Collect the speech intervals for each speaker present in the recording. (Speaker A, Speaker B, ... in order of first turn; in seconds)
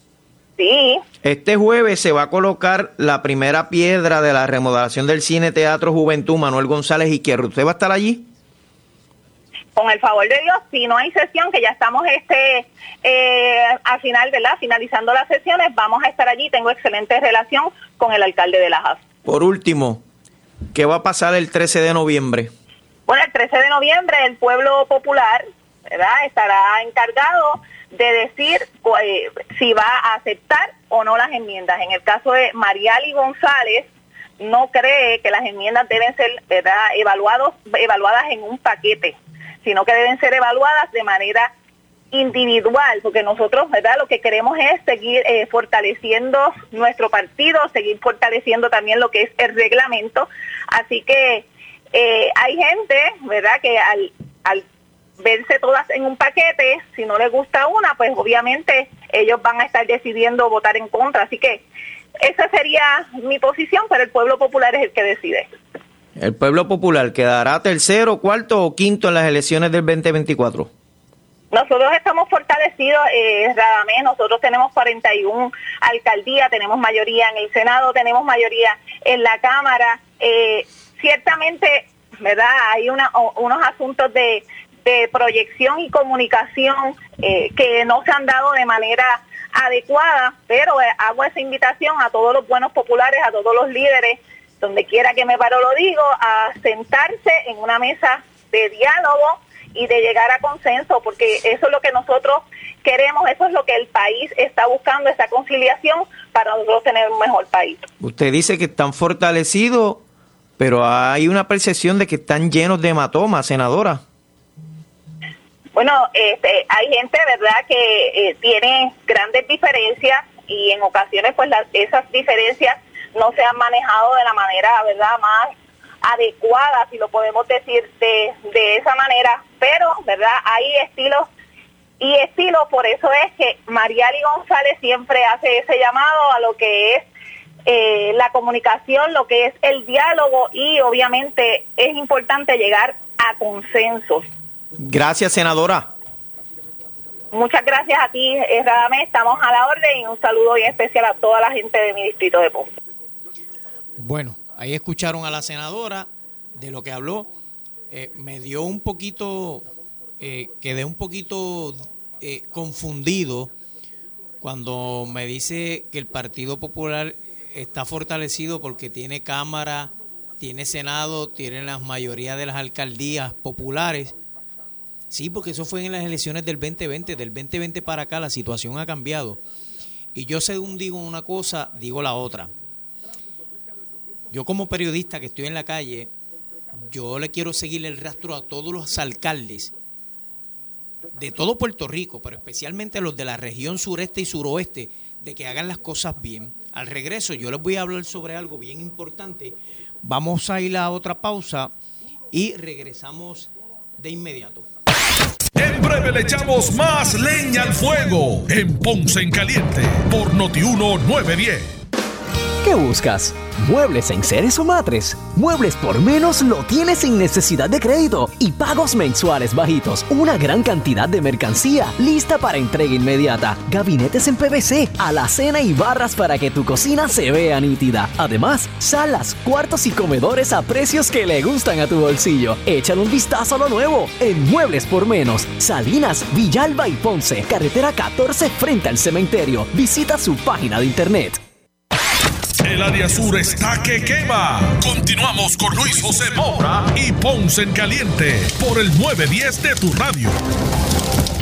Speaker A: 0.6-1.0, 9.8-19.0, 23.1-33.9, 34.4-41.5, 42.1-54.6, 55.2-61.6, 62.2-65.5, 71.5-107.9, 115.8-131.3, 132.0-137.1, 137.7-144.3, 147.3-152.7
Speaker B: 1.2-8.3, 19.3-20.0, 20.7-22.5, 66.2-70.7, 108.0-110.0, 110.6-114.0, 144.8-145.9
Speaker C: 154.0-157.3, 157.9-159.7, 160.2-163.5, 164.4-174.2, 175.1-179.4, 180.2-182.5, 184.3-186.1, 186.9-189.7, 191.2-201.7, 202.3-204.7
Speaker D: 205.6-211.8, 242.6-250.4
Speaker E: 212.6-241.4